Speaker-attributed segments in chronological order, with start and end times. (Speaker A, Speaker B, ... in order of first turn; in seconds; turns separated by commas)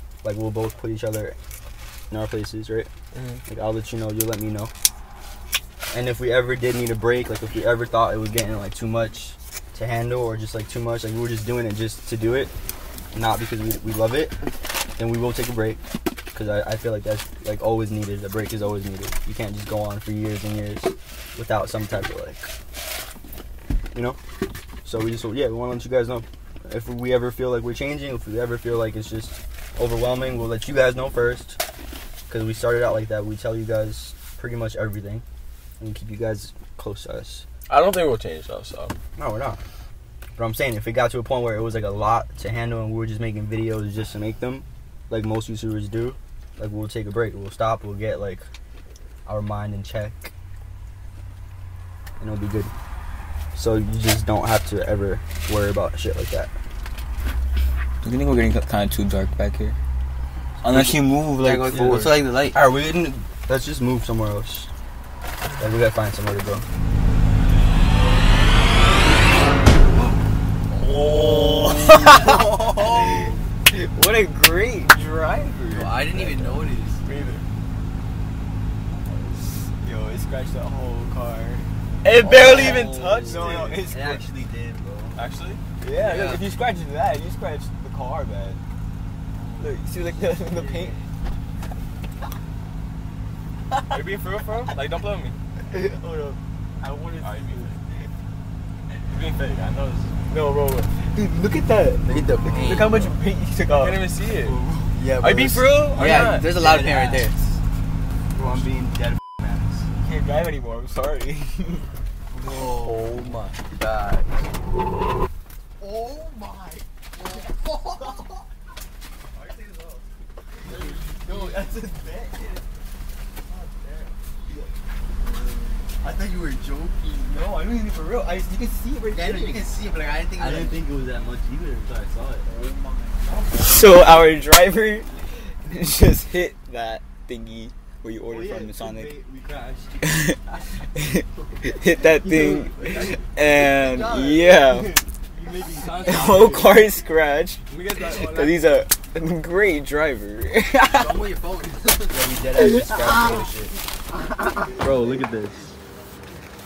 Speaker A: 0.2-1.4, Speaker A: 2.1-2.9, Speaker B: 3.1-3.4, Speaker A: 3.5-4.7, Speaker A: 5.9-12.5, Speaker A: 13.1-14.4, Speaker A: 15.0-15.8, Speaker A: 16.3-22.5, Speaker A: 24.9-31.6, Speaker A: 32.3-35.2, Speaker A: 35.8-37.5, Speaker B: 37.7-39.0, Speaker A: 39.2-39.6, Speaker A: 40.4-48.5, Speaker A: 49.3-50.3, Speaker A: 52.2-52.7, Speaker A: 53.5-56.5, Speaker C: 58.0-59.8, Speaker C: 60.6-62.2, Speaker D: 61.4-62.6, Speaker A: 61.7-64.7, Speaker A: 65.6-66.7, Speaker C: 70.9-76.0, Speaker D: 71.0-73.2, Speaker D: 75.7-77.0, Speaker A: 76.1-76.6, Speaker B: 77.0-77.5, Speaker C: 79.8-81.7, Speaker B: 82.0-83.8, Speaker A: 82.2-85.3, Speaker C: 82.4-84.3, Speaker B: 85.2-85.6, Speaker C: 85.8-88.6, Speaker D: 86.0-86.4, Speaker A: 89.3-90.9, Speaker C: 89.6-91.0, Speaker B: 93.9-95.4, Speaker C: 95.7-97.7, Speaker B: 97.2-97.8, Speaker B: 99.1-100.3, Speaker C: 100.3-105.0, Speaker A: 102.0-102.8, Speaker D: 102.1-103.1, Speaker B: 103.7-104.6, Speaker D: 105.0-107.4, Speaker B: 105.2-106.5, Speaker C: 106.0-107.2, Speaker A: 106.1-107.2, Speaker A: 108.3-109.9, Speaker C: 110.0-111.9, Speaker D: 112.4-113.0, Speaker A: 112.5-113.6, Speaker D: 113.6-114.5, Speaker A: 120.7-122.6, Speaker C: 121.3-121.8, Speaker C: 125.2-125.9, Speaker D: 126.0-127.3, Speaker C: 127.2-129.7, Speaker D: 129.1-130.8, Speaker A: 130.4-132.5, Speaker C: 132.4-139.2, Speaker A: 138.3-140.7, Speaker C: 140.0-140.4, Speaker C: 141.0-145.0, Speaker A: 142.2-146.8, Speaker C: 145.9-151.2, Speaker A: 147.7-148.5, Speaker D: 150.9-152.2, Speaker A: 152.1-153.7, Speaker C: 152.6-153.5, Speaker C: 154.6-155.0, Speaker A: 154.8-155.7